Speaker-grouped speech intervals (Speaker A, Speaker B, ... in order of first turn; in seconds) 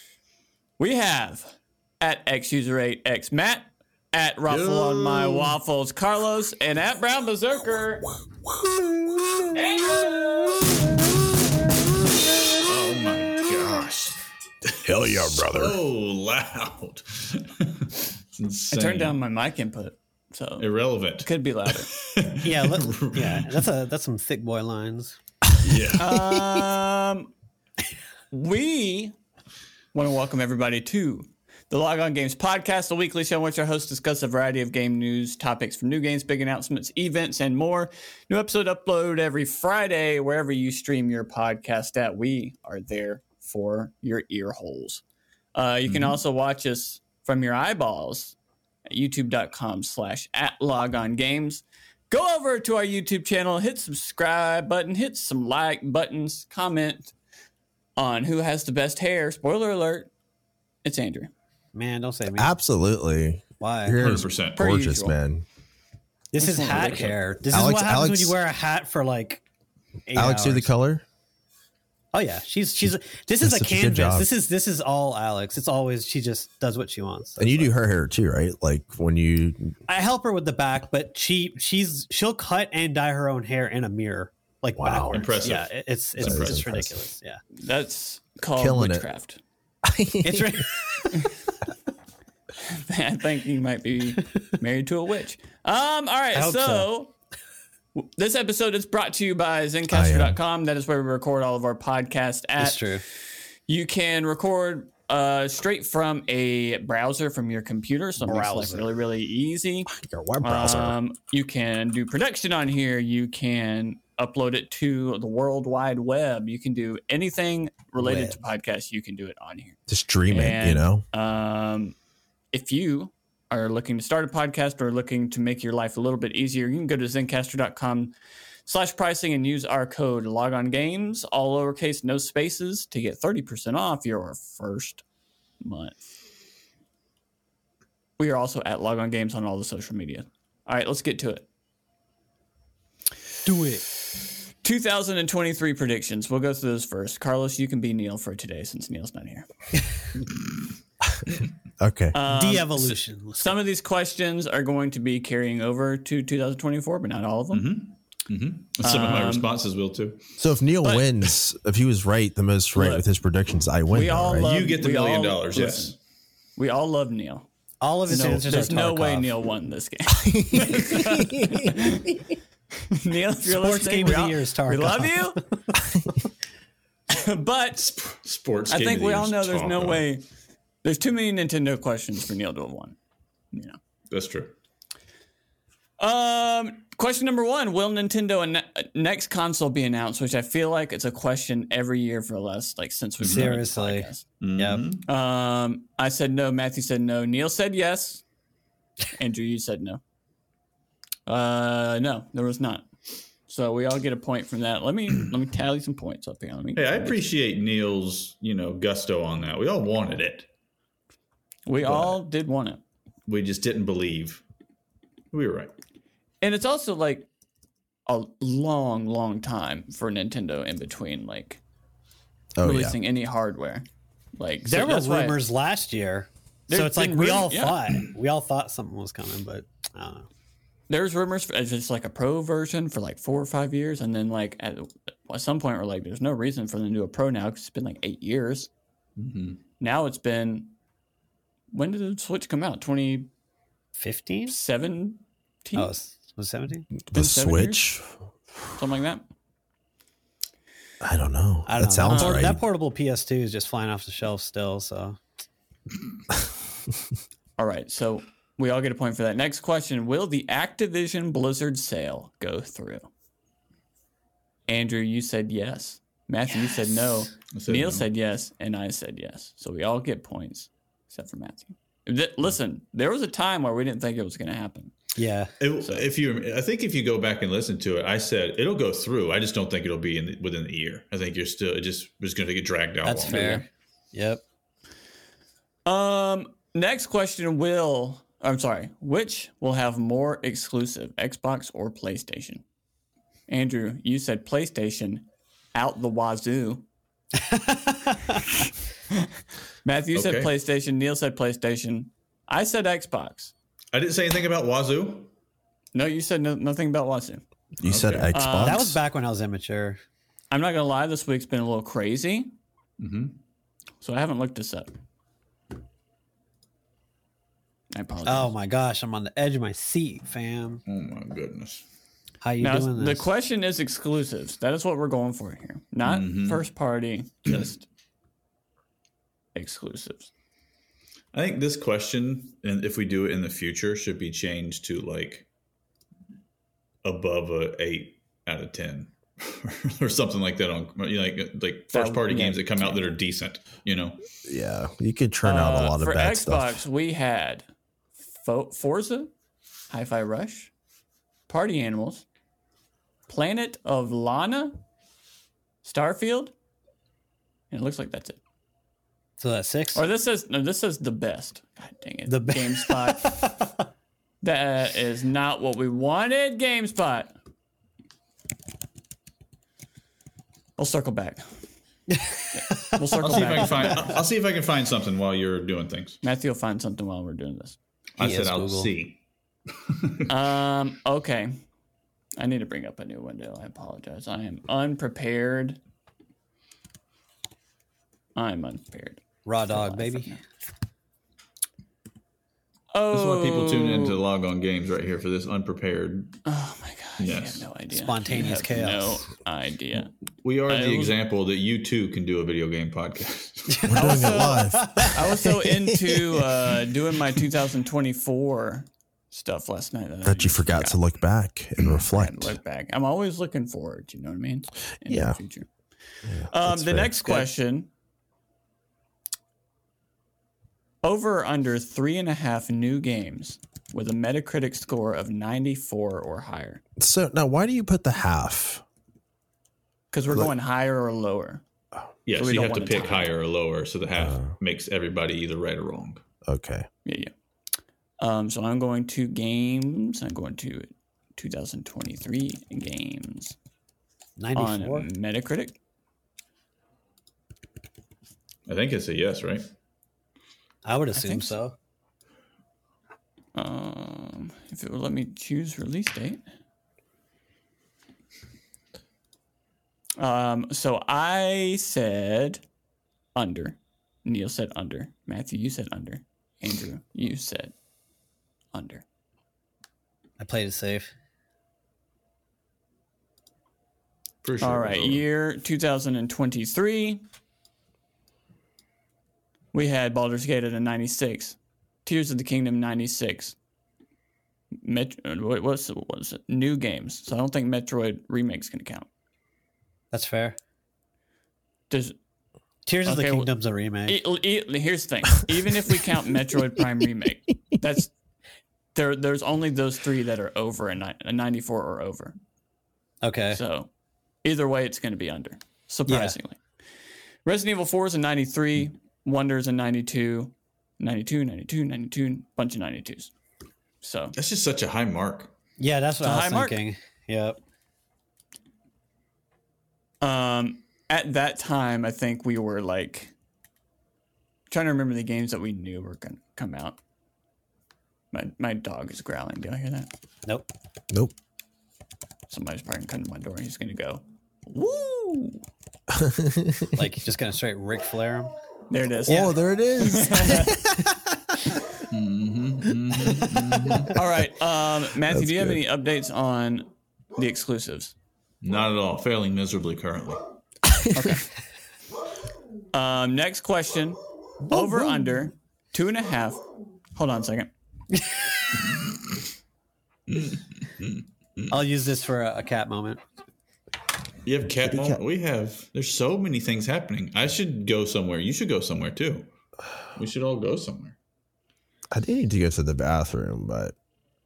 Speaker A: 0.8-8.1, 9.6-10.6, 18.7-21.9, 26.0-27.3, 28.3-29.1, 29.9-45.0, 45.5-48.4, 48.9-57.1, 58.0-60.1, 60.8-61.3, 64.6-65.2, 66.4-67.2, 87.5-89.4, 92.6-97.1, 98.0-122.0, 122.5-128.1, 128.7-135.0, 135.6-136.1, 138.2-141.5, 144.6-149.5, 152.1-157.7, 158.8-159.5, 162.8-163.1, 163.9-166.0, 166.6-167.5, 168.1-172.3, 172.9-175.4, 177.1-177.9, 178.7-180.2, 180.8-183.0, 183.5-183.8, 186.0-194.2, 195.1-198.2, 199.2-200.0, 201.3-202.9, 203.5-207.2, 211.7-212.8, 216.4-217.3, 218.1-221.6, 222.6-223.8, 224.4-225.4, 226.7-227.9, 230.9-238.7, 239.8-240.7, 241.7-243.3, 244.5-245.9, 247.1-247.9, 248.8-249.3, 252.1-252.5, 257.6-263.1, 264.7-274.9, 275.8-276.1, 283.2-283.6, 285.9-292.6, 293.5-296.9, 299.8-303.5, 305.9-307.4, 308.3-308.9, 310.5-312.5, 314.0-314.9, 317.9-318.5, 322.6-327.9, 329.6-330.3, 341.9-343.1, 345.4-347.7, 348.2-349.3, 349.9-350.7, 351.5-352.2, 353.3-354.8, 355.8-356.5, 357.7-358.4, 359.9-363.6, 364.4-367.4, 370.8-371.4, 372.9-374.1, 376.2-377.8, 380.3-381.6, 382.4-385.8, 388.4-390.4, 392.9-394.2, 396.4-400.1, 400.7-401.1, 403.9-411.0, 412.1-415.7, 416.5-417.9, 421.0-426.8, 430.1-431.6, 432.4-433.3, 437.1-437.3, 438.2-443.6, 444.6-445.8, 451.1-451.6, 453.6-456.4, 460.2-462.6, 463.4-467.7, 468.7-469.1, 474.6-477.2, 479.7-483.6, 484.8-489.1, 491.9-492.2, 493.1-493.5, 494.1-498.1, 498.9-502.4, 503.5-503.9, 504.4-506.6, 507.4-513.3, 514.0-514.4, 516.2-516.8, 520.2-523.3, 524.7-527.0, 528.3-530.1, 532.5-535.6, 538.9-540.8, 544.1-548.1, 551.1-551.5, 552.9-556.6, 557.1-557.7
Speaker B: 4.5-5.5, 12.6-14.2, 14.9-19.2, 20.6-21.3, 21.8-23.6, 25.6-26.1, 45.9-46.2, 64.0-64.6, 85.1-86.7, 157.5-160.2, 164.4-165.9, 177.8-180.1, 184.1-184.6, 193.2-193.5, 194.4-195.1, 206.8-210.5, 211.8-212.2, 213.3-214.4, 215.3-215.7, 239.2-239.6, 267.5-268.1, 275.6-283.6, 300.1-300.5, 303.9-305.3, 307.9-308.3, 313.0-313.4, 320.9-321.9, 326.1-326.6, 331.3-335.5, 337.0-344.2, 373.2-376.2, 378.2-379.2, 379.8-380.3, 393.1-396.4, 397.2-397.6, 400.4-403.9, 432.3-436.2, 448.7-449.7, 474.4-475.2, 514.4-515.5, 542.1-544.1, 548.6-550.4, 558.8-559.1, 560.3-561.8, 564.5-569.5, 570.1-571.2
Speaker C: 14.8-15.8, 26.1-26.5, 62.4-65.5, 67.5-68.4, 70.1-71.0, 72.8-74.3, 77.4-79.8, 84.8-85.2, 86.2-86.9, 88.6-89.1, 89.8-90.7, 99.9-100.4, 109.9-111.0, 118.1-118.3, 119.9-121.0, 151.8-152.2, 160.4-164.5, 170.2-172.1, 222.6-223.0, 247.1-248.1, 251.0-252.6, 307.8-309.0, 344.4-346.8, 403.9-406.6, 410.2-412.6, 415.1-415.4, 416.2-417.5, 427.0-428.8, 434.2-434.5, 436.4-436.9, 531.1-531.4, 536.1-537.0, 539.3-541.2, 545.3-545.8, 550.9-551.3, 564.9-565.2, 572.1-573.9
Speaker D: 22.4-25.2, 61.8-62.5, 63.6-64.0, 66.3-69.4, 70.1-70.7, 72.1-77.7, 79.9-87.4, 90.2-91.3, 96.3-96.9, 102.6-103.0, 108.2-108.9, 143.4-143.8, 152.2-153.6, 167.8-169.3, 173.4-176.0, 193.2-194.8, 224.7-230.3, 244.0-244.6, 245.8-246.9, 251.7-255.2, 275.2-275.5, 283.1-284.4, 297.4-298.4, 308.6-310.0, 318.2-320.8, 322.4-323.3, 359.4-360.0, 362.3-363.6, 372.1-374.1, 378.2-378.9, 389.4-390.3, 397.9-399.3, 403.7-405.2, 444.4-445.1, 450.8-451.8, 470.4-471.1, 490.1-490.6, 492.9-494.2, 503.2-503.6, 506.1-506.4, 515.8-517.6, 537.0-538.5, 554.7-555.2, 561.7-563.2